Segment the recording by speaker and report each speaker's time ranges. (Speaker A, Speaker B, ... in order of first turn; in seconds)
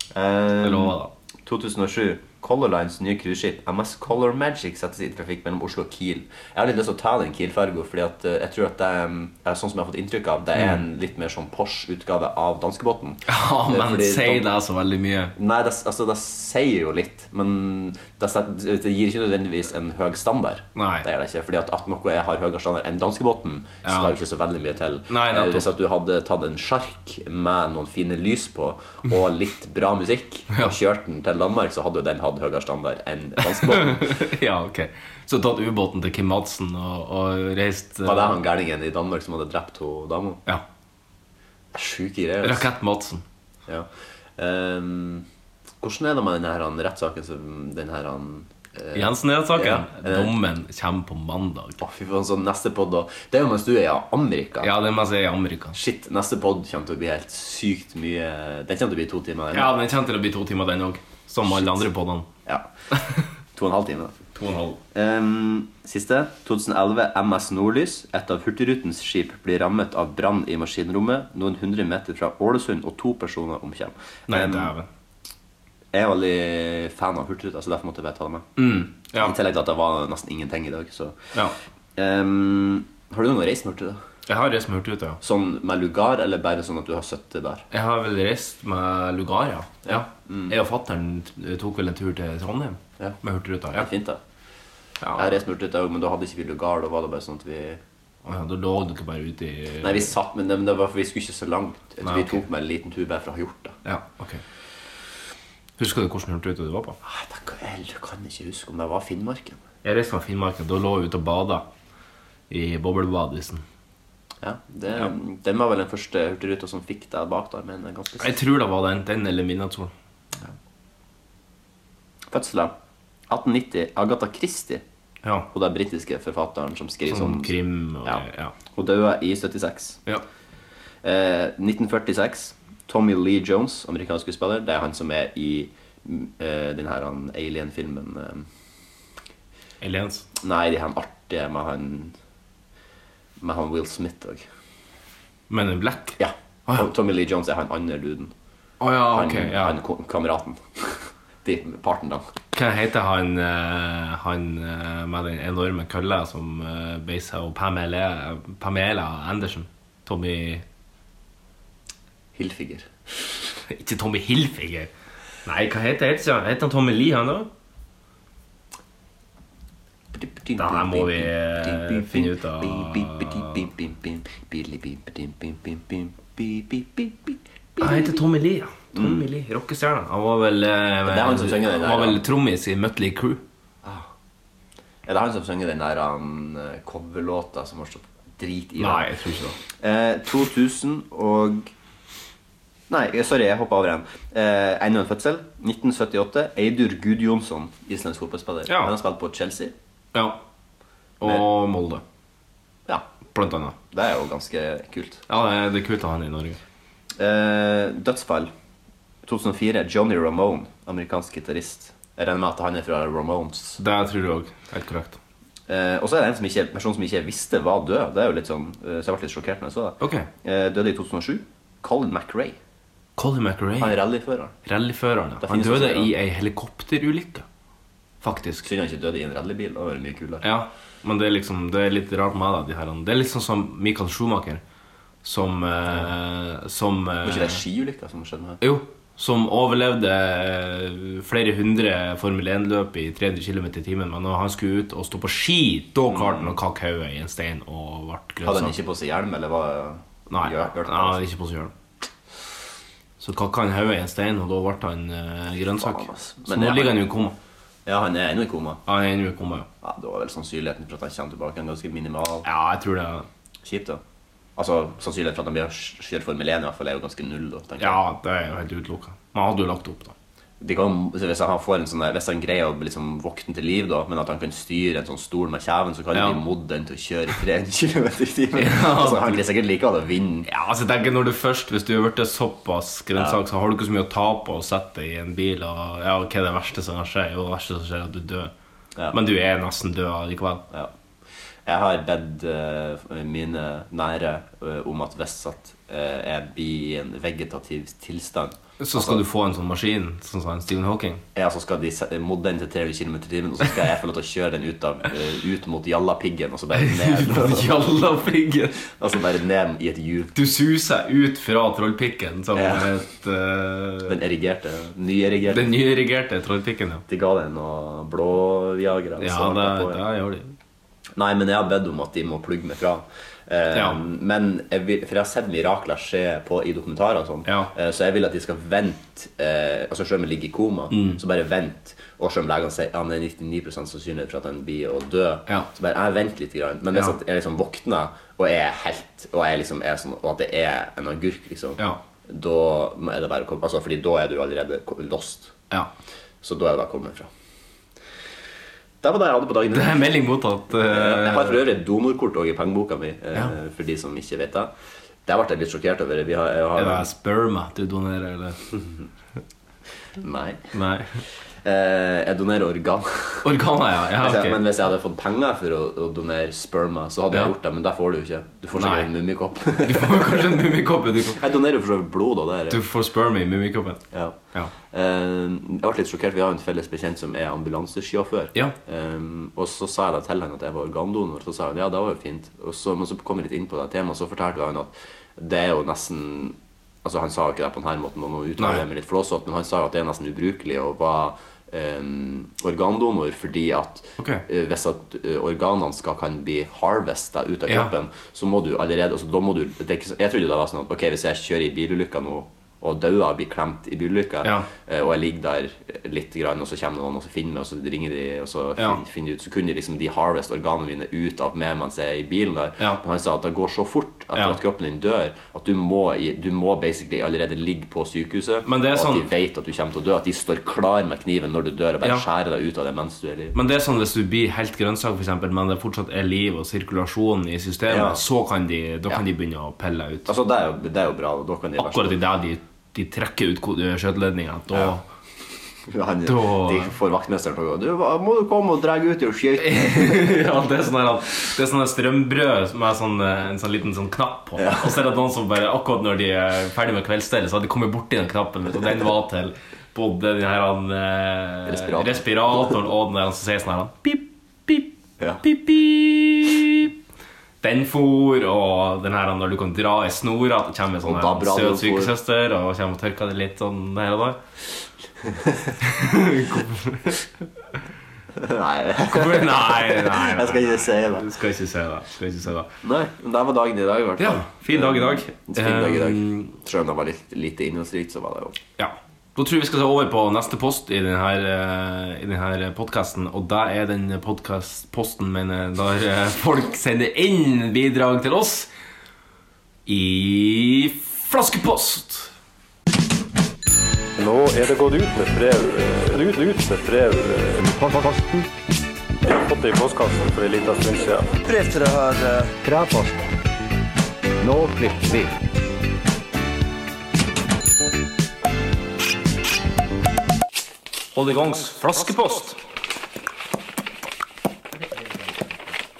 Speaker A: 0.1-14.5, 15.4-34.2, 38.0-40.4, 41.7-42.7, 43.7-45.3, 45.8-50.4, 51.8-54.7, 55.7-59.7, 61.5-61.8, 63.5-64.2, 64.9-74.7, 75.9-78.5, 79.2-81.2, 82.0-84.0, 85.2-87.7, 89.9-90.5, 93.7-94.2, 95.2-97.8, 99.8-103.8, 107.0-109.6, 114.4-118.3, 122.3-122.7, 123.3-124.8, 125.5-130.0, 131.0-138.5, 140.4-142.2, 143.4-144.5, 146.2-148.3, 149.1-152.2, 162.3-162.9, 170.1-178.2, 178.9-179.2, 181.1-182.2, 185.1-189.1, 189.8-191.7, 192.9-199.7, 203.9-205.2, 207.2-208.5, 209.2-213.8, 215.7-222.6, 223.8-224.6, 225.4-226.1, 228.6-230.4, 237.2-238.6, 246.1-246.6, 248.4-251.2, 255.8-257.0, 257.9-258.8, 259.8-262.5, 263.6-264.0, 264.6-268.0, 270.6-280.5, 291.7-299.2, 301.4-307.7, 308.9-310.3, 312.6-312.9, 314.1-315.7, 317.1-320.0, 321.2-345.5, 346.4-347.3, 349.0-350.1, 350.9-354.7, 355.3-357.1, 360.2-360.6, 361.6-363.5, 364.2-370.6, 371.4-372.8, 374.1-374.4, 374.9-423.6, 427.9-428.2, 430.3-432.2, 435.9-440.4, 444.6-444.9, 451.7-452.8, 461.1-462.1, 465.3-465.7, 468.4-471.3, 472.8-478.6
Speaker B: 0.6-1.1, 13.3-15.3, 20.8-21.1, 23.8-24.2, 25.1-25.7, 33.4-38.4, 42.4-43.2, 48.9-51.8, 54.6-55.8, 59.5-62.3, 62.9-63.2, 64.3-64.8, 74.3-74.9, 78.6-79.3, 84.3-85.2, 87.7-93.9, 95.0-95.3, 98.2-100.1, 102.0-102.4, 103.8-104.4, 105.8-107.0, 109.8-111.7, 112.5-113.6, 118.2-119.9, 125.2-125.5, 127.1-128.6, 139.8-140.3, 145.5-146.9, 148.8-149.8, 152.5-160.6, 163.7-164.9, 165.4-167.5, 170.6-173.7, 177.8-183.4, 188.8-189.6, 198.7-198.9, 200.1-200.4, 201.2-202.0, 203.3-203.8, 205.3-206.6, 213.8-215.2, 220.0-220.3, 223.2-224.0, 224.6-227.5, 228.2-228.7, 230.4-234.6, 235.2-237.6, 238.6-248.8, 250.3-251.7, 253.2-257.4, 258.9-259.7, 262.4-263.3, 267.8-270.1, 276.1-276.4, 278.5-279.4, 280.5-288.5, 289.1-290.6, 298.8-301.2, 306.7-308.8, 310.4-314.2, 315.5-317.0, 319.2-320.6, 323.7-324.0, 327.4-327.7, 330.9-331.2, 349.7-351.6, 356.8-358.6, 360.7-361.1, 363.4-364.6, 368.7-369.1, 369.8-371.4, 372.7-374.7, 388.6-388.8, 394.2-394.4, 404.4-404.7, 418.6-419.3, 423.5-430.3, 431.8-435.0, 436.2-436.9, 439.6-454.9, 455.4-456.9, 457.6-464.4, 465.8-467.2, 469.0-472.7, 474.2-476.5, 478.8-488.7, 489.9-492.3, 511.1-512.6
Speaker C: 494.2-497.7, 499.3-501.4
Speaker D: 497.6-498.5, 502.6-503.2, 504.4-505.3